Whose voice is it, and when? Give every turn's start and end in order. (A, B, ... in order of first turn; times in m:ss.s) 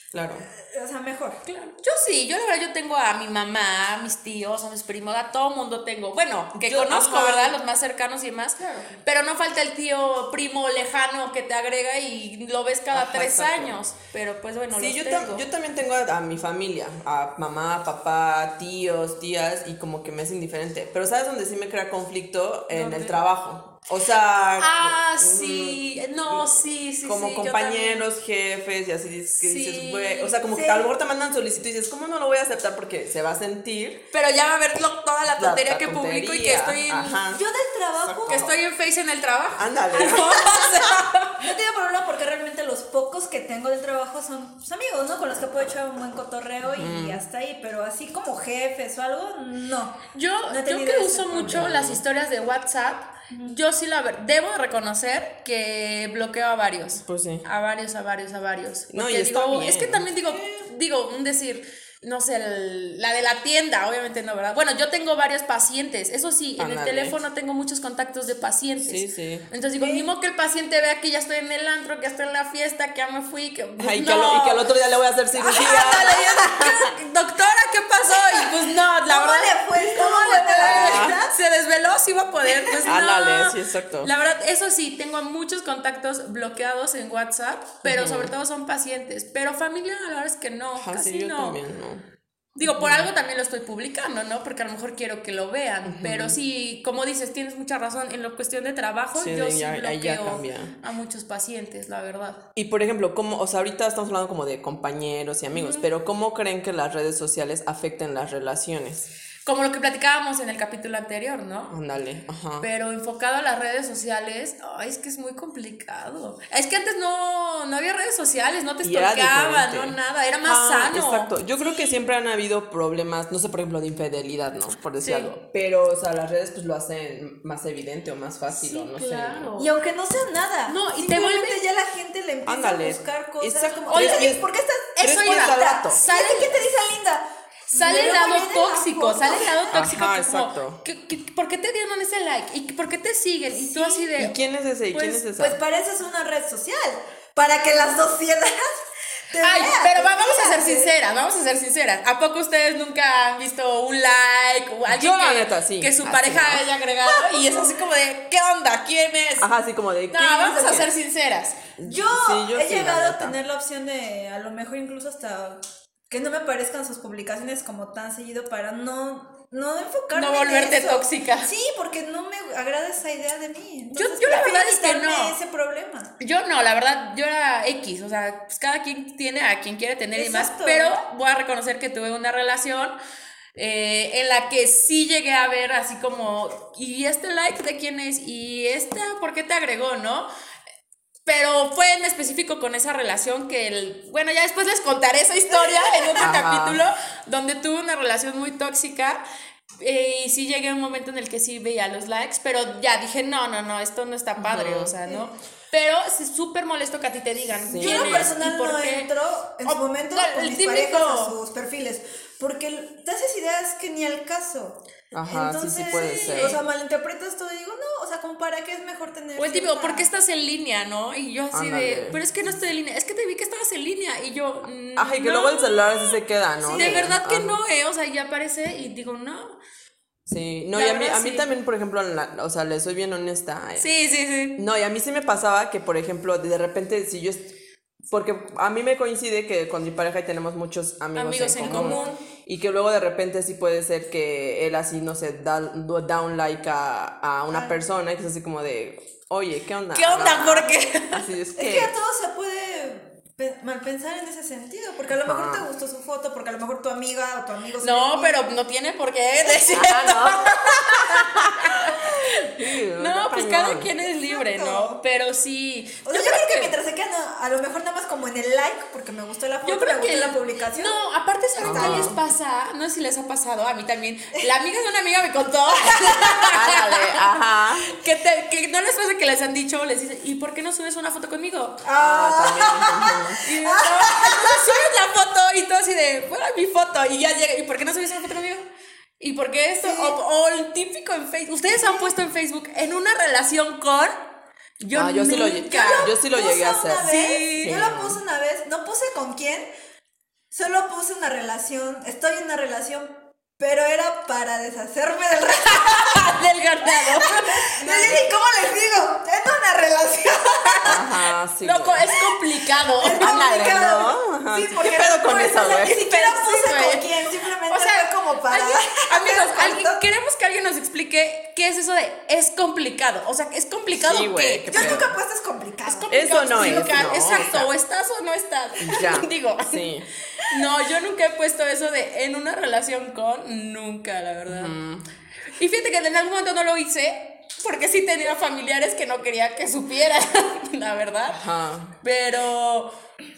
0:00.1-0:00.5 A
0:00.5-0:01.4 B
0:01.5-0:15.5 C
0:06.6-0:07.6 A
0:12.9-0:13.8 A
0:14.7-0:26.5 A
0:22.7-0:23.2 C
0:24.6-0:28.1 C
0:27.0-0:34.1 A
0:29.4-0:30.4 C
0:30.5-0:30.9 B
0:34.1-0:37.2 C
0:35.4-0:37.4 A
0:37.3-0:38.5 B
0:38.0-0:38.5 A
0:38.3-0:41.4 C
0:39.5-0:40.9 A
0:40.0-0:40.3 B
0:41.3-0:51.7 B
0:46.7-0:47.2 A
0:50.1-1:14.7 C
0:51.5-0:52.0 A
0:53.3-0:53.6 B
0:57.0-0:57.5 A
0:58.9-1:00.3 A
1:06.6-1:07.2 A
1:08.8-1:09.5 A
1:09.8-1:10.1 B
1:13.8-1:16.9 A
1:15.4-1:31.6 C
1:15.5-1:16.4 B
1:18.1-1:21.4 B
1:20.6-1:21.2 A
1:22.8-1:24.1 A
1:27.8-1:28.4 A
1:30.8-1:32.0 A
1:32.6-1:42.4 C
1:32.6-1:33.1 A
1:35.8-1:36.4 A
1:39.2-1:40.8 A
1:42.6-1:49.1 A
1:45.5-1:45.9 C
1:49.4-1:51.8 C
1:51.7-1:52.7 A
1:52.6-2:01.4 C
1:58.8-2:09.5 A
2:05.0-2:05.3 C
2:08.5-2:09.7 C
2:09.6-2:19.7 B
2:10.7-2:11.6 C
2:12.4-2:14.5 A
2:13.9-2:14.4 C
2:15.0-2:16.6 C
2:15.0-2:16.0 A
2:17.7-2:24.4 C
2:19.7-2:20.8 A
2:23.5-2:24.1 B
2:24.2-2:25.6 A
2:24.9-2:25.2 C
2:25.3-2:31.0 B
2:29.4-2:39.5 C
2:34.9-2:36.7 A
2:37.0-2:37.8 B
2:39.4-2:40.9 A
2:40.1-2:41.6 C
2:41.8-2:43.4 A
2:41.8-2:56.2 B
2:50.1-2:51.5 C
2:54.0-2:55.4 C
2:56.2-3:03.0 C
3:00.2-3:01.0 B
3:03.6-3:10.3 C
3:11.2-3:19.2 C
3:15.5-3:16.3 B
3:16.2-3:16.8 A
3:19.8-3:29.1 C
3:24.4-3:25.0 A
3:25.1-3:25.3 B
3:27.7-3:28.4 A
3:27.8-3:40.1 B
3:29.6-3:31.4 C
3:35.1-3:36.6 A
3:36.3-3:36.6 C
3:39.4-3:49.6 C
3:41.5-3:42.2 A
3:45.0-3:47.6 A
3:46.7-3:47.0 B
3:50.3-3:53.9 A
3:50.7-3:51.5 C
3:53.8-3:54.6 C
3:54.6-3:57.5 A
3:58.1-4:12.0 A
4:01.2-4:02.2 C
4:01.6-4:02.2 B
4:07.5-4:07.8 B
4:09.9-4:11.2 C
4:11.6-4:18.5 B
4:15.2-4:15.7 A
4:17.8-4:26.7 C
4:19.7-4:23.9 A
4:24.2-4:25.0 B
4:26.1-4:31.0 B
4:29.6-4:37.2 C
4:31.6-4:32.2 B
4:31.6-4:32.2 A
4:36.4-4:37.9 A
4:37.8-4:41.8 C
4:41.8-4:44.7 B
4:42.0-4:43.4 A
4:43.4-4:48.7 C
4:49.2-4:54.3 C
4:49.8-4:50.2 B
4:51.6-4:52.1 B
4:54.8-4:56.2 C
4:54.9-4:58.2 A
4:55.4-4:59.7 B
4:57.0-4:57.8 C
5:00.5-5:06.3 B
5:05.7-5:08.3 C
5:06.8-5:11.1 B
5:07.9-5:08.2 A
5:10.5-5:11.0 C
5:10.8-5:12.1 A
5:11.6-5:14.0 C
5:12.9-5:20.0 B
5:13.2-5:16.0 A
5:15.3-5:17.1 C
5:17.7-5:25.0 C
5:23.9-5:25.2 A
5:24.7-5:27.1 B
5:25.8-5:29.9 C
5:26.1-5:27.7 A
5:28.8-5:30.1 A
5:30.4-5:34.8 C
5:34.5-5:35.1 A
5:35.5-5:41.4 C
5:41.3-5:42.0 A
5:42.0-5:42.9 C